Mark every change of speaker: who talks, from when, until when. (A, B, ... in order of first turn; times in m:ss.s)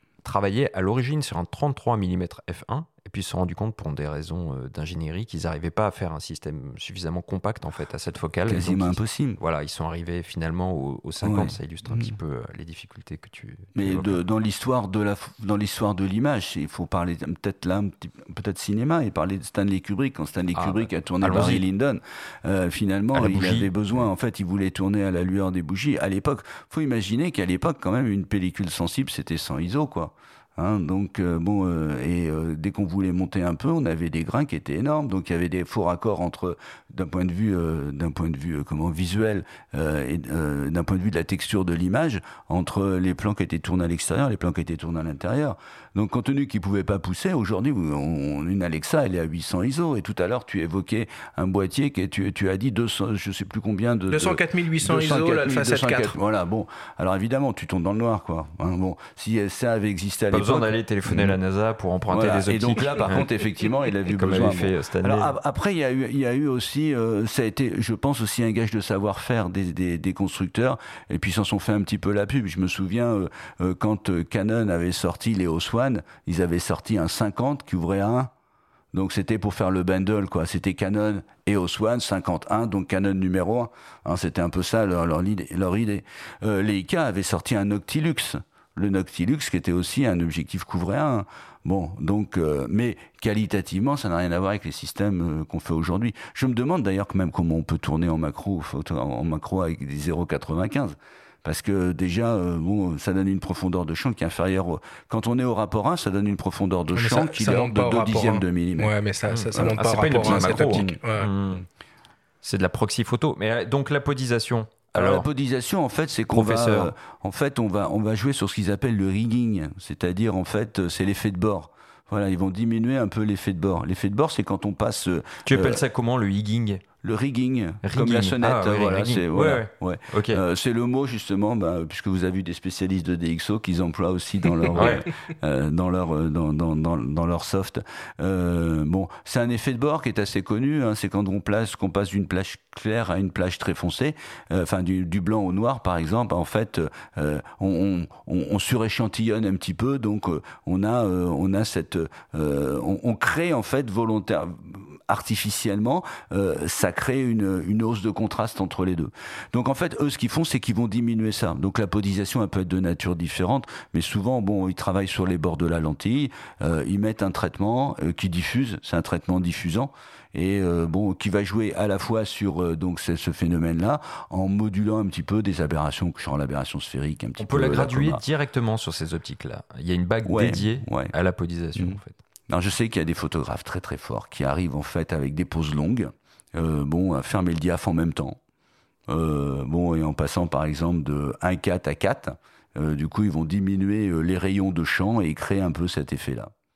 0:00.2-0:14.2 A
0:08.5-0:09.4 B
0:11.2-0:12.1 B
0:13.8-1:01.4 B
0:20.6-0:21.6 A
0:23.1-0:23.7 A
0:54.1-0:56.2 C
1:00.3-1:03.3 A
1:02.1-1:18.3 B
1:04.1-1:05.3 A
1:18.9-1:48.9 B
1:47.0-1:51.3 C
1:49.3-1:51.6 A
1:49.6-1:51.0 B
1:52.4-1:55.3 A
1:54.9-2:05.8 B
1:56.3-1:56.9 A
2:05.5-2:06.9 A
2:07.0-2:58.2 B
2:07.8-2:10.4 A
2:14.7-2:15.1 A
2:57.4-3:02.2 A
3:00.3-3:01.1 B
3:01.8-3:08.4 B
3:09.1-3:16.5 B